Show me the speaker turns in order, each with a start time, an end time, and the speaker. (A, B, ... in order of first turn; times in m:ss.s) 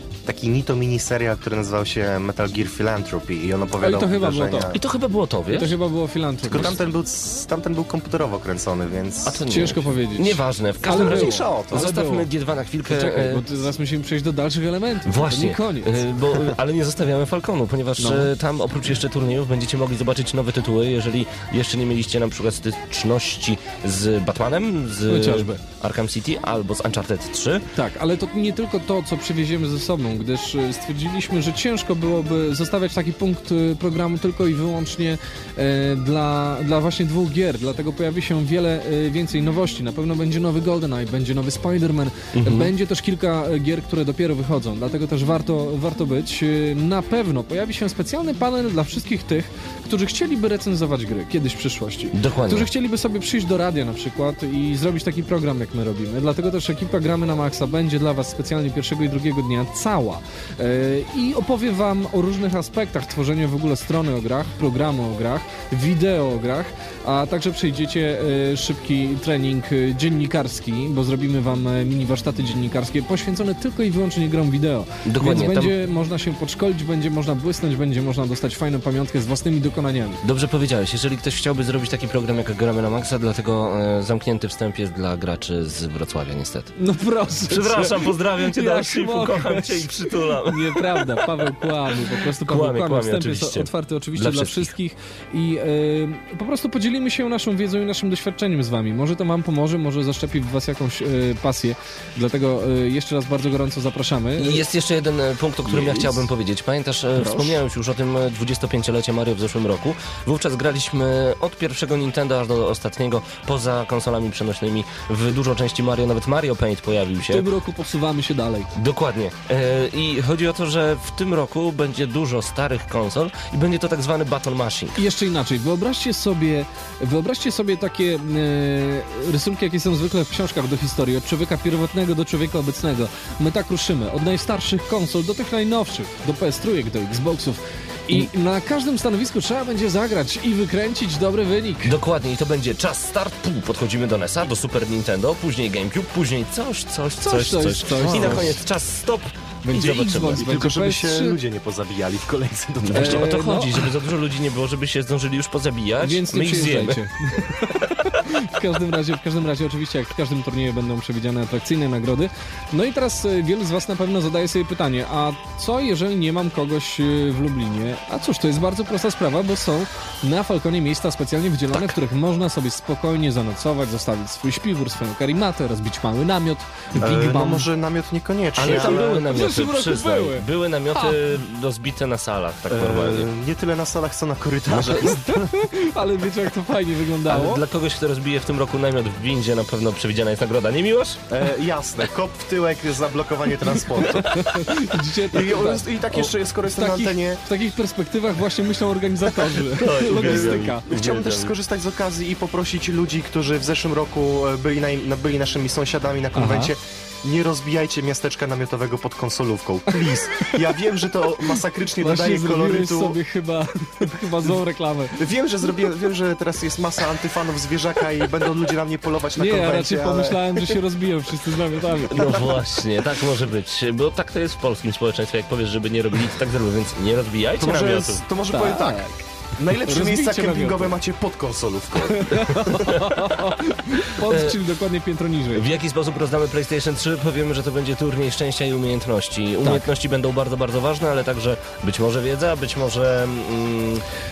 0:00.2-0:04.8 A
0:03.8-0:04.7 B
0:04.7-0:05.8 C
0:05.5-0:06.7 B
0:06.4-0:09.4 A
0:09.2-0:13.4 C
0:09.5-0:12.3 B
0:10.8-0:11.9 A
0:12.9-0:16.0 B
0:15.1-0:27.6 C
0:18.0-0:18.3 B
0:25.1-0:25.6 B
0:27.7-1:20.2 B
0:42.4-0:42.7 C
0:52.1-0:52.7 C
1:15.0-1:15.7 C
1:20.2-1:26.7 C
1:26.8-1:44.6 B
1:27.5-1:31.5 C
1:32.4-1:34.7 C
1:44.4-1:57.5 C
1:45.7-1:46.1 B
1:47.2-1:47.6 B
1:57.3-1:58.7 B
1:58.7-2:05.0 C
2:05.0-2:21.9 B
2:21.8-2:30.4 C
2:27.2-2:28.5 B
2:28.0-2:28.6 A
2:29.6-2:31.4 B
2:30.2-2:33.3 A
2:32.9-2:33.8 B
2:32.9-2:37.0 C
2:36.0-2:57.7 B
2:57.0-2:59.2 A
2:58.6-3:03.3 C
2:58.6-3:01.2 B
3:02.7-3:05.5 A
3:04.7-3:05.1 C
3:05.0-3:07.6 B
3:07.3-3:11.2 C
3:11.3-3:14.4 A
3:14.0-3:14.5 C
3:14.3-3:20.8 B
3:15.3-3:17.4 A
3:19.6-3:21.5 C
3:20.1-3:33.2 A
3:26.3-3:26.7 B
3:32.0-3:35.2 B
3:35.1-3:40.8 A
3:39.4-3:42.3 B
3:42.1-3:48.2 C
3:42.1-3:42.4 A
3:47.6-3:49.0 A
3:48.5-3:49.2 B
3:49.6-3:52.5 A
3:49.8-3:50.9 B
3:52.1-3:55.7 B
3:52.7-3:53.5 C
3:54.2-3:54.6 C
3:55.5-4:04.0 C
3:59.6-3:59.9 B